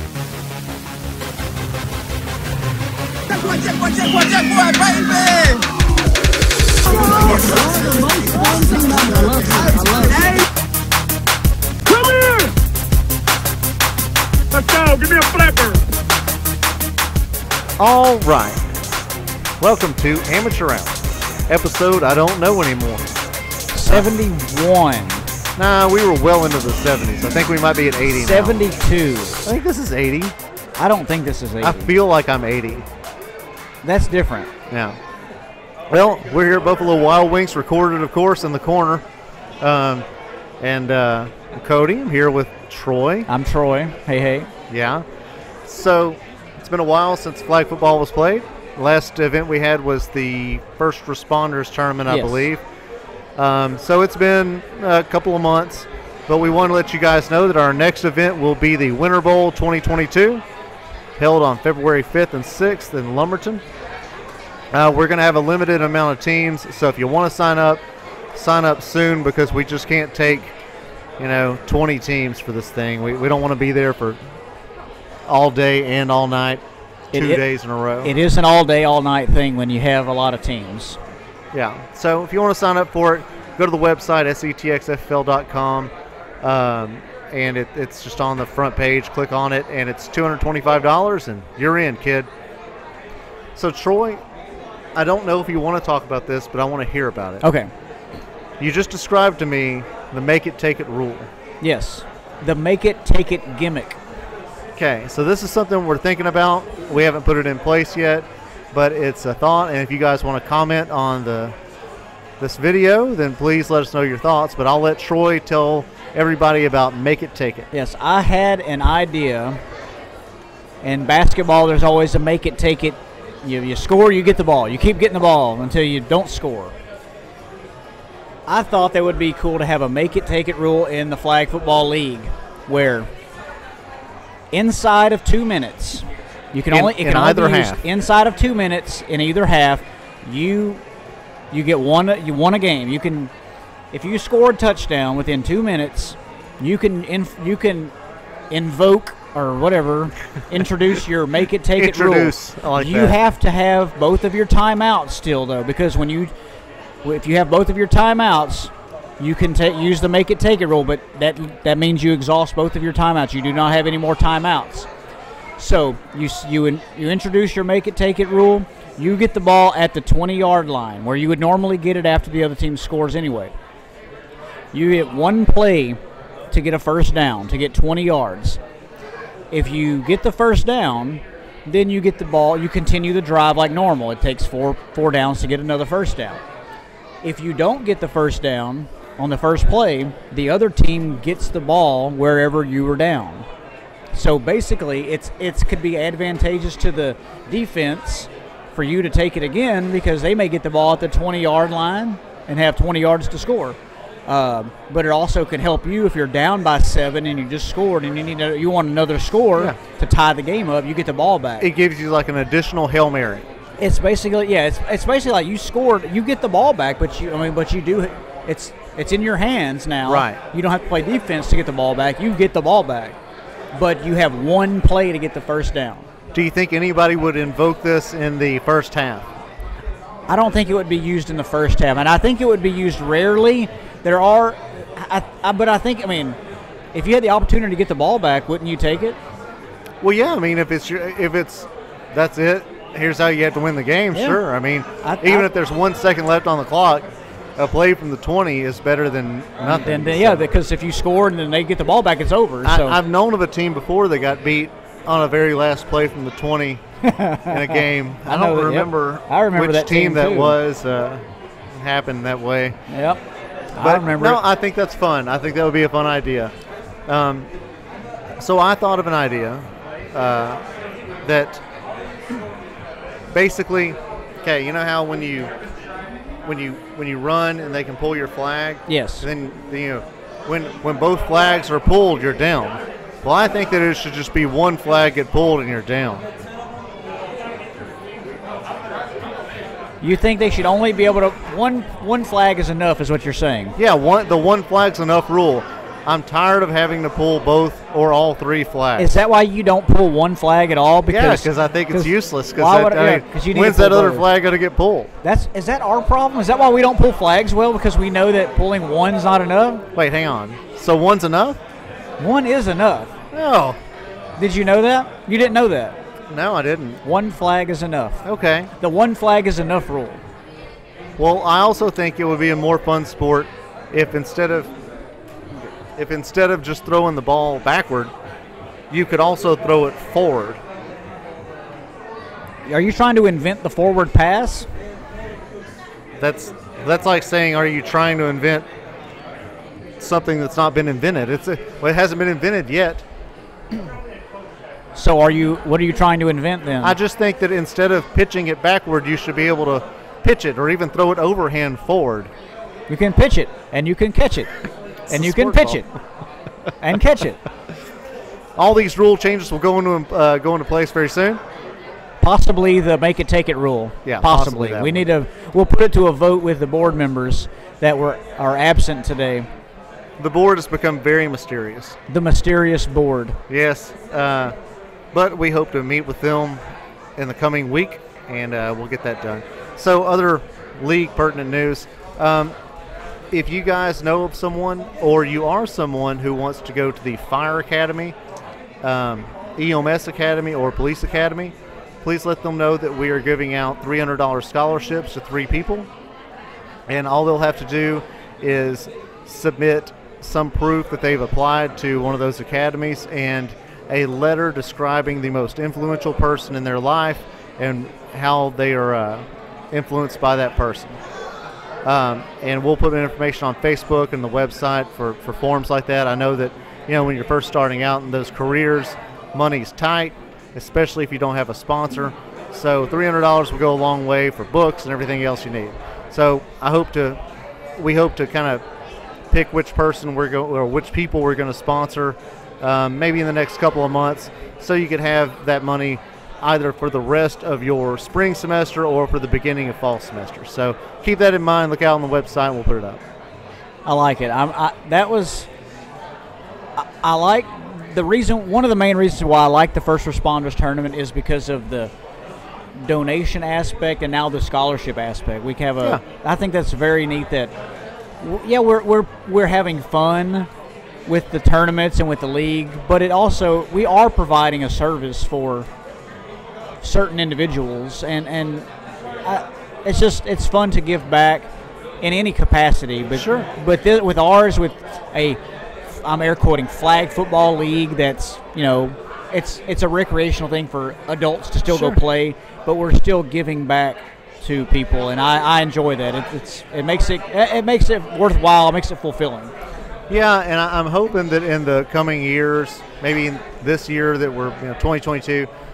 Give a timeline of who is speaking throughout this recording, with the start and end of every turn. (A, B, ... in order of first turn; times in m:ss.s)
0:03.3-0:05.7 A
0:06.8-0:10.4 A
0:11.9-0:12.5 A
0:14.5-0:15.8 A
0:17.8-0:18.6 B
0:19.6-0:23.0 B
0:23.7-0:25.3 C
0:25.6-0:28.6 B
0:28.1-0:29.4 C
0:29.4-0:30.4 B
0:30.8-0:31.9 C
0:31.6-0:32.9 B
0:33.8-0:34.5 C
0:34.7-0:35.0 B
0:35.9-0:39.0 B
0:39.6-0:40.0 B
0:40.6-0:43.3 B
0:43.3-0:44.5 C
0:44.7-0:45.0 B
0:45.7-0:52.6 B
0:52.1-0:52.5 C
0:53.4-1:00.4 B
1:01.2-1:03.6 B
1:04.7-1:07.8 B
1:08.4-1:10.5 B
1:11.2-1:14.2 B
1:15.3-1:18.1 B
1:17.1-1:17.5 C
1:18.0-1:21.0 C
1:21.5-1:25.9 B
1:26.4-1:32.3 B
1:33.6-1:34.2 B
1:35.0-1:37.5 B
1:37.4-1:37.7 C
1:38.6-1:41.3 B
1:41.6-1:44.0 C
1:44.8-1:51.6 B
1:52.4-1:57.7 B
1:57.7-1:59.6 C
2:00.8-2:06.7 C
2:08.5-2:13.1 C
2:14.5-2:20.8 C
2:16.7-2:17.8 B
2:21.5-2:23.3 C
2:23.9-2:27.9 C
2:28.5-2:36.3 C
2:31.8-2:33.2 B
2:37.0-2:44.9 C
2:45.6-2:53.5 C
2:54.7-2:56.0 C
2:56.5-2:58.6 C
2:59.5-3:06.4 C
3:07.2-3:13.5 C
3:14.1-3:31.7 C
3:31.6-3:33.5 B
3:33.8-3:43.2 C
3:40.1-3:40.4 B
3:43.7-3:46.1 C
3:46.3-3:49.3 B
3:50.3-3:56.4 C
3:56.9-3:59.2 C
4:00.0-4:10.5 B
4:04.1-4:04.4 C
4:05.0-4:05.5 C
4:09.6-4:13.0 C
4:12.6-4:16.8 B
4:17.0-4:20.6 C
4:17.5-4:22.8 B
4:22.9-4:23.2 C
4:23.8-4:24.4 C
4:23.8-4:26.5 B
4:27.1-4:27.5 B
4:28.4-4:30.6 B
4:31.2-4:31.6 B
4:33.3-4:35.5 B
4:36.4-4:46.3 B
4:38.9-4:39.3 C
4:50.0-4:53.8 C
4:53.8-4:59.2 B
4:59.0-5:04.3 C
5:01.1-5:05.1 B
5:05.2-5:09.8 C
5:09.9-5:11.6 B
5:12.2-5:13.1 C
5:13.3-5:13.8 B
5:14.4-5:16.0 C
5:16.3-5:17.0 B
5:17.0-5:18.2 C
5:18.2-5:18.7 B
5:18.8-5:20.2 C
5:21.2-5:24.7 B
5:26.0-5:28.1 B
5:28.9-5:30.6 B
5:32.7-5:34.7 C
5:36.2-5:38.7 B
5:40.0-5:43.0 B
5:45.0-5:47.0 C
5:46.8-5:52.3 B
5:52.9-5:54.5 C
5:55.1-5:55.8 B
5:55.1-5:55.9 C
5:56.8-5:57.4 C
5:58.6-6:01.4 B
6:02.2-6:09.5 C
6:04.0-6:05.1 B
6:10.2-6:12.0 B
6:12.1-6:13.4 C
6:13.5-6:14.6 B
6:15.1-6:16.6 B
6:17.2-6:22.6 B
6:23.3-6:28.2 B
6:28.8-6:35.9 B
6:36.9-6:51.0 B
6:51.8-7:07.2 B
7:07.8-7:08.6 B
7:09.3-7:23.0 B
7:23.8-7:25.5 C
7:26.8-7:31.9 C
7:32.8-7:37.5 C
7:38.2-7:40.5 C
7:41.1-7:45.7 C
7:46.8-7:48.7 C
7:49.2-7:51.5 C
7:52.0-8:09.5 C
7:53.2-7:53.5 B
8:01.7-8:02.0 B
8:10.1-8:15.5 B